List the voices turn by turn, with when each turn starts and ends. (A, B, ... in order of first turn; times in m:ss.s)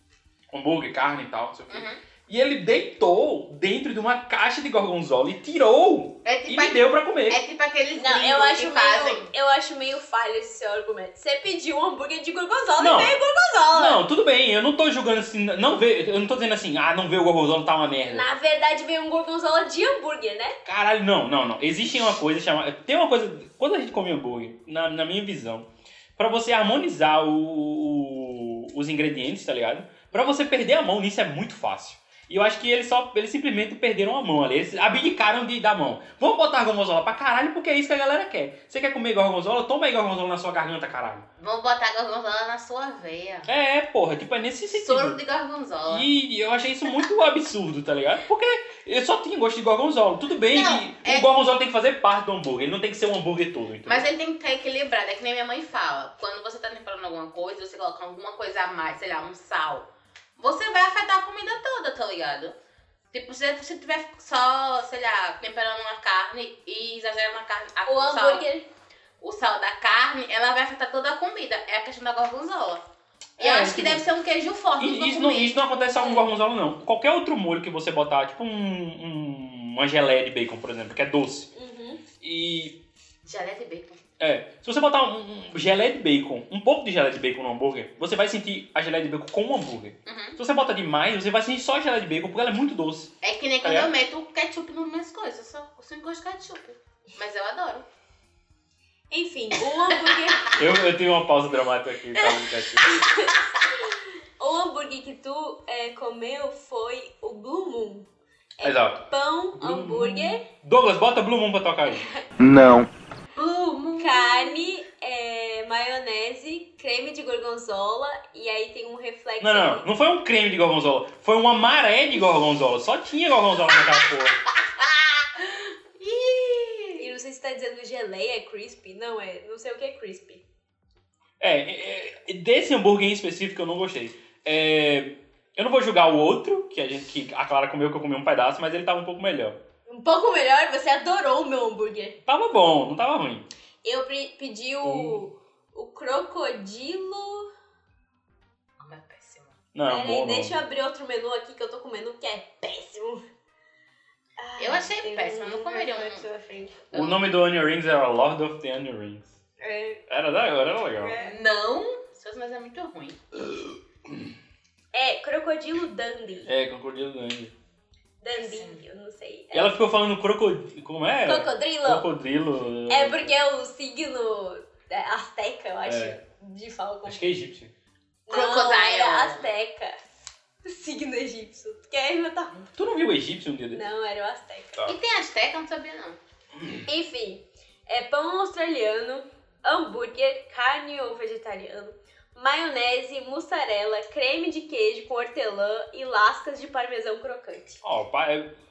0:00.5-0:07.4 A
0:01.7-0:02.0 B
0:06.2-0:09.3 B
0:08.0-0:14.0 C
0:12.8-0:13.2 A
0:13.7-0:18.3 A
0:18.0-0:20.6 C
0:20.6-0:41.3 A
0:41.4-0:43.5 B
0:43.5-0:45.2 A
0:44.7-0:46.1 B
0:45.9-0:54.1 A
0:50.5-0:51.3 B
0:53.8-1:02.5 B
1:03.1-1:08.4 B
1:07.8-1:08.7 C
1:09.2-1:12.8 B
1:13.4-1:14.0 A
1:13.4-1:15.6 B
1:14.8-1:21.5 A
1:15.9-1:16.2 C
1:21.5-1:22.0 C
1:22.2-1:22.8 A
1:23.2-1:24.0 B
1:24.2-1:33.9 A
1:30.0-1:30.4 B
1:33.2-1:37.8 B
1:39.1-1:40.5 C
1:40.5-1:42.9 A
1:42.8-1:43.3 C
1:44.4-1:48.1 C
1:48.6-1:50.4 C
1:48.6-1:52.1 A
1:53.3-1:54.7 B
1:54.0-1:59.8 C
1:59.4-2:04.4 A
2:03.7-2:04.0 B
2:04.8-2:07.0 B
2:07.0-2:10.4 C
2:11.4-2:19.6 A
2:19.9-2:22.2 C
2:22.2-2:23.5 A
2:23.8-2:27.5 C
2:24.8-2:25.2 A
2:28.8-2:29.6 B
2:29.7-2:30.6 A
2:29.9-2:33.2 C
2:34.4-2:36.8 C
2:34.6-2:36.3 B
2:36.9-2:37.4 B
2:36.9-2:39.3 A
2:39.6-2:40.0 C
2:40.1-2:41.2 A
2:41.0-2:41.4 C
2:41.2-2:43.2 B
2:43.4-2:44.3 A
2:44.9-2:46.5 C
2:46.5-2:47.5 A
2:48.2-2:49.8 C
2:48.3-2:48.8 B
2:49.5-2:53.3 A
2:51.2-2:52.0 C
2:52.9-2:57.3 C
2:55.8-2:56.2 A
2:57.0-2:57.7 A
2:58.3-3:00.0 C
2:58.3-2:59.5 B
3:00.6-3:02.6 C
3:02.7-3:03.8 A
3:03.7-3:04.9 C
3:04.8-3:06.2 B
3:06.9-3:17.8 C
3:17.8-3:18.5 A